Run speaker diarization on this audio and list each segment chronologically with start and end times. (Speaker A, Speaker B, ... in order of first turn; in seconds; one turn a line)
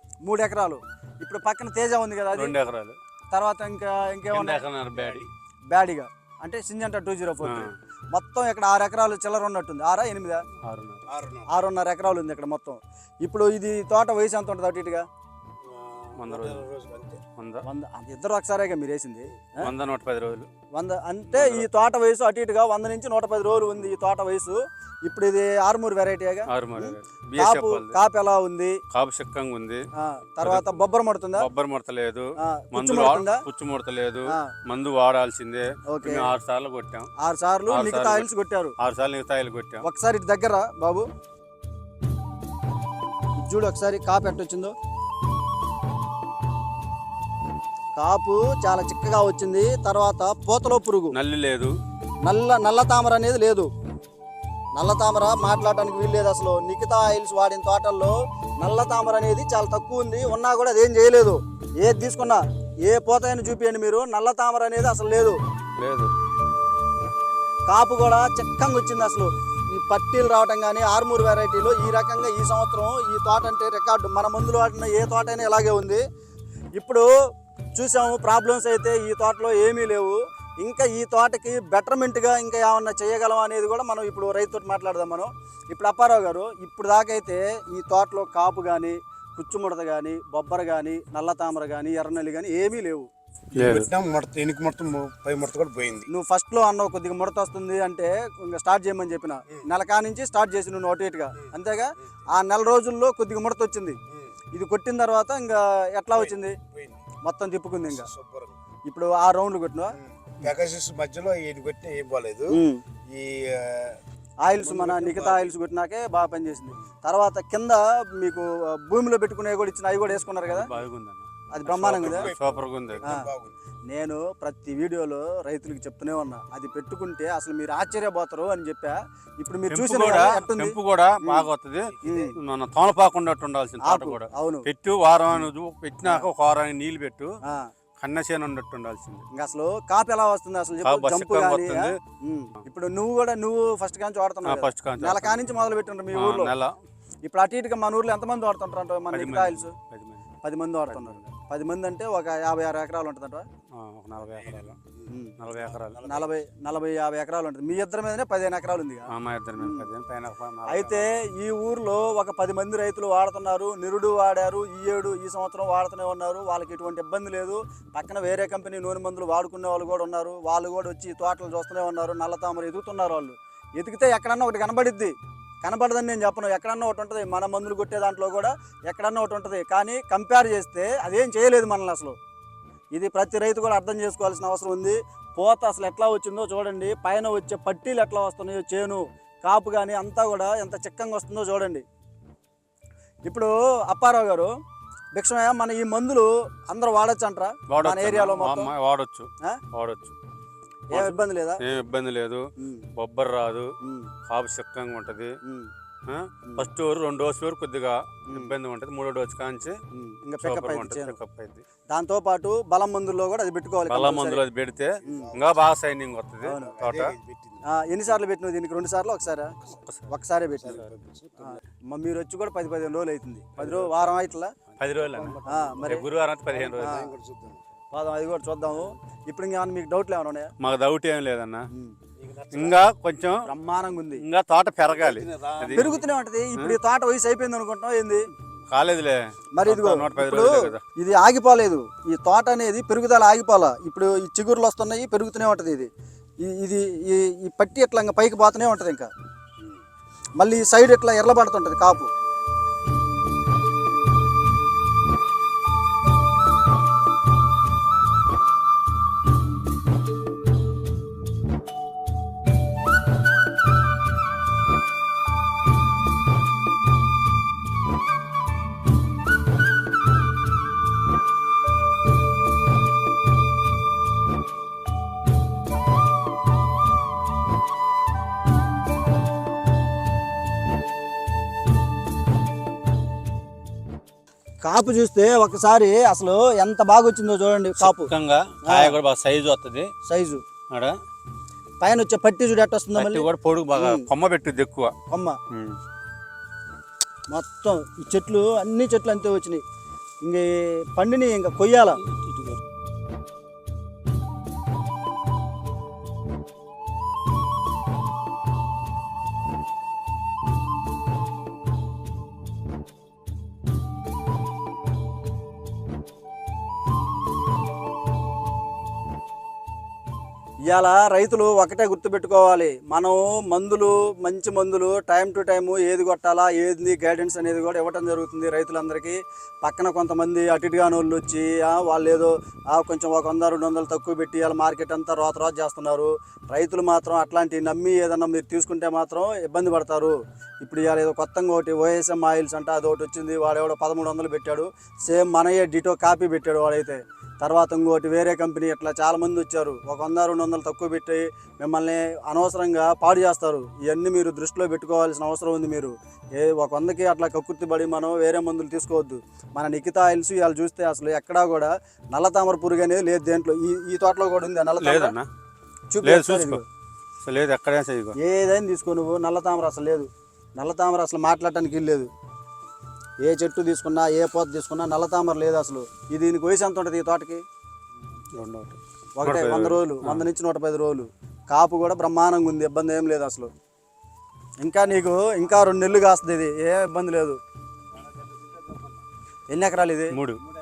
Speaker A: 0.2-2.6
Speaker B: 2.3-3.0
Speaker A: 3.3-4.6
Speaker B: 4.3-5.3
Speaker A: 5.7-10.4
Speaker B: 7.4-7.7
Speaker B: 10.6-11.0
Speaker C: 11.1-11.5
Speaker A: 11.5-15.1
Speaker C: 15.6-17.2
Speaker B: 16.2-16.6
Speaker B: 17.4-17.6
Speaker A: 17.6-19.7
Speaker B: 19.6-20.5
Speaker A: 20.7-28.8
Speaker B: 21.3-21.6
Speaker B: 26.5-28.0
Speaker B: 28.9-29.8
Speaker A: 30.0-31.5
Speaker B: 30.4-30.8
Speaker B: 31.4-37.1
Speaker A: 32.4-33.4
Speaker A: 35.9-36.3
Speaker A: 37.2-38.7
Speaker B: 37.7-38.3
Speaker B: 38.8-39.8
Speaker A: 39.8-41.1
Speaker A: 43.4-44.7
Speaker A: 48.0-51.2
Speaker B: 51.1-51.7
Speaker A: 52.2-53.7
Speaker A: 54.8-65.4
Speaker B: 65.8-66.1
Speaker A: 67.7-76.0
Speaker A: 76.8-77.1
Speaker A: 77.7-93.1
Speaker B: 93.5-93.9
Speaker C: 93.5-96.1
Speaker A: 96.1-104.0
Speaker A: 104.5-106.6
Speaker C: 106.2-107.1
Speaker A: 107.2-108.1
Speaker C: 107.9-108.6
Speaker A: 108.9-110.0
Speaker C: 110.0-114.0
Speaker A: 112.5-112.8
Speaker A: 114.4-120.7
Speaker C: 114.6-115.5
Speaker B: 120.5-123.2
Speaker A: 121.5-122.3
Speaker C: 121.7-123.5
Speaker A: 123.0-123.3
Speaker A: 123.9-131.5
Speaker B: 129.7-137.3
Speaker A: 132.0-132.3
Speaker A: 133.8-134.7
Speaker B: 138.0-139.2
Speaker A: 139.3-146.5
Speaker B: 140.8-142.0
Speaker B: 144.4-145.4
Speaker B: 146.1-146.7
Speaker A: 147.2-149.7
Speaker B: 149.1-150.3
Speaker A: 150.4-153.4
Speaker B: 150.9-151.3
Speaker B: 153.8-154.8
Speaker C: 154.4-156.3
Speaker A: 155.1-155.3
Speaker B: 155.4-156.0
Speaker A: 156.0-159.9
Speaker B: 159.1-161.2
Speaker A: 160.7-182.2
Speaker A: 182.9-191.8
Speaker A: 193.2-194.5
Speaker A: 195.2-198.7
Speaker B: 197.7-200.1
Speaker A: 200.9-201.6
Speaker B: 200.9-202.4
Speaker A: 202.6-202.9
Speaker B: 202.9-203.7
Speaker A: 203.8-204.1
Speaker B: 204.3-205.3
Speaker A: 205.4-205.7
Speaker B: 206.1-209.8
Speaker A: 208.3-208.5
Speaker A: 209.9-211.2
Speaker B: 210.4-211.6
Speaker A: 211.9-214.4
Speaker B: 213.9-217.2
Speaker C: 215.0-215.5
Speaker A: 215.1-215.3
Speaker A: 216.4-216.8
Speaker C: 216.7-217.7
Speaker A: 217.7-219.5
Speaker B: 219.8-220.1
Speaker A: 220.1-220.8
Speaker C: 220.6-221.6
Speaker A: 221.4-224.5
Speaker B: 224.8-227.1
Speaker C: 224.9-227.6
Speaker A: 225.4-226.1
Speaker A: 226.8-227.1
Speaker A: 227.9-230.5
Speaker B: 230.6-231.6
Speaker C: 232.2-232.8
Speaker B: 232.5-233.4
Speaker A: 233.4-234.2
Speaker B: 234.2-235.9
Speaker C: 234.9-236.0
Speaker A: 235.7-238.2
Speaker B: 238.7-240.8
Speaker A: 239.6-245.9
Speaker A: 246.4-249.1
Speaker A: 250.4-252.1
Speaker A: 284.6-288.1
Speaker B: 287.8-289.9
Speaker A: 288.6-289.0
Speaker A: 290.0-290.4
Speaker A: 291.8-294.1
Speaker B: 292.9-294.9
Speaker A: 295.1-295.4
Speaker B: 295.5-295.8
Speaker A: 297.3-299.6
Speaker A: 300.2-302.0
Speaker B: 302.1-302.6
Speaker A: 320.7-365.1
Speaker B: 364.8-365.3
Speaker A: 365.9-366.6
Speaker B: 366.0-366.6
Speaker B: 367.2-368.1
Speaker A: 368.2-372.1
Speaker A: 373.2-377.4
Speaker B: 378.3-380.2
Speaker A: 379.2-383.5
Speaker A: 384.6-387.4
Speaker A: 389.5-390.1
Speaker B: 390.1-390.4